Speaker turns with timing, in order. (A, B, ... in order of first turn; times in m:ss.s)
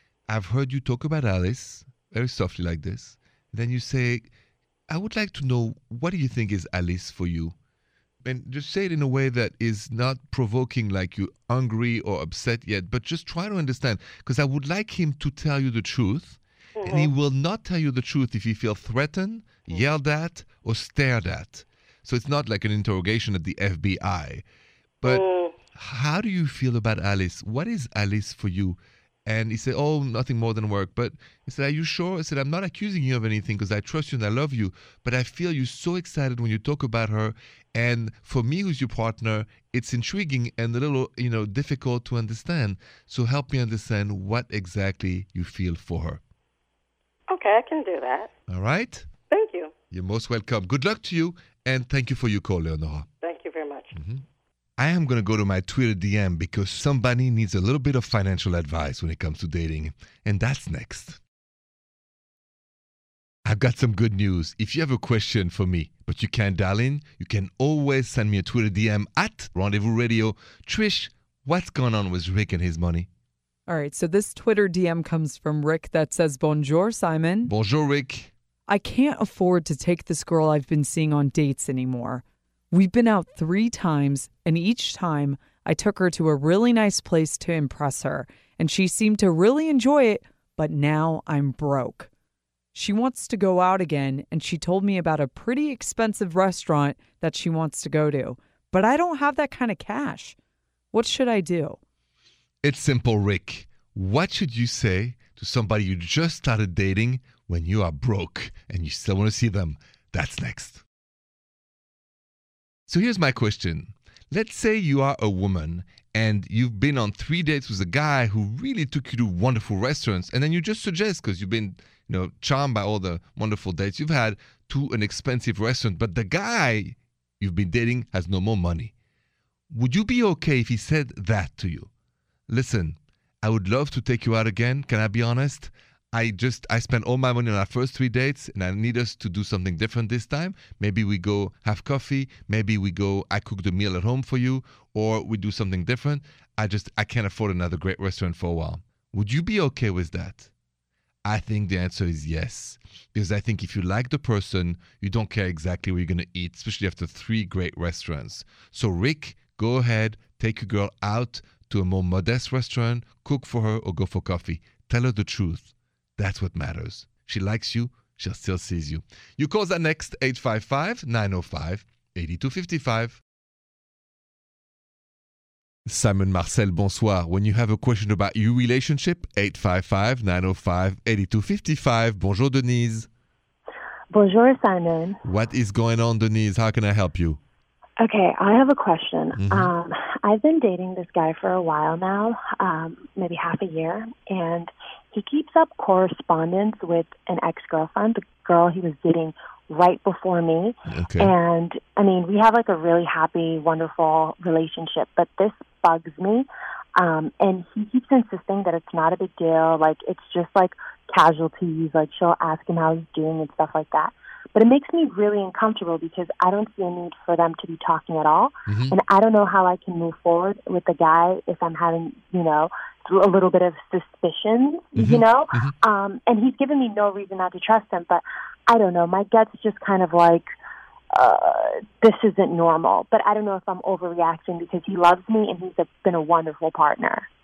0:00.3-0:04.3 A
0:04.9-0:07.5 A
0:08.2-0:24.4 A
0:16.8-0:17.1 B
0:25.0-0:25.5 B
0:25.8-0:46.2 A
0:47.3-0:48.3 B
0:48.5-0:49.1 A
0:49.3-0:49.7 B
0:49.9-0:53.1 A
0:53.2-0:53.9 B
0:53.9-0:54.2 A
0:54.8-1:01.2 A
1:03.4-1:13.1 A
1:13.7-1:17.5 C
1:17.4-1:18.3 A
1:18.7-1:32.1 C
1:32.7-1:40.4 C
1:40.9-1:41.8 C
1:42.6-1:50.8 A
1:52.9-2:08.9 A
2:09.7-2:11.9 A
2:12.5-2:30.5 A
2:31.2-2:53.2 A
2:55.9-3:03.1 A
3:04.1-3:05.2 D
3:05.2-3:07.4 A
3:08.0-3:50.5 D
3:09.4-3:09.7 A
3:20.9-3:21.3 A
3:38.7-3:39.0 A
3:45.0-3:45.7 A
3:51.1-3:57.3 D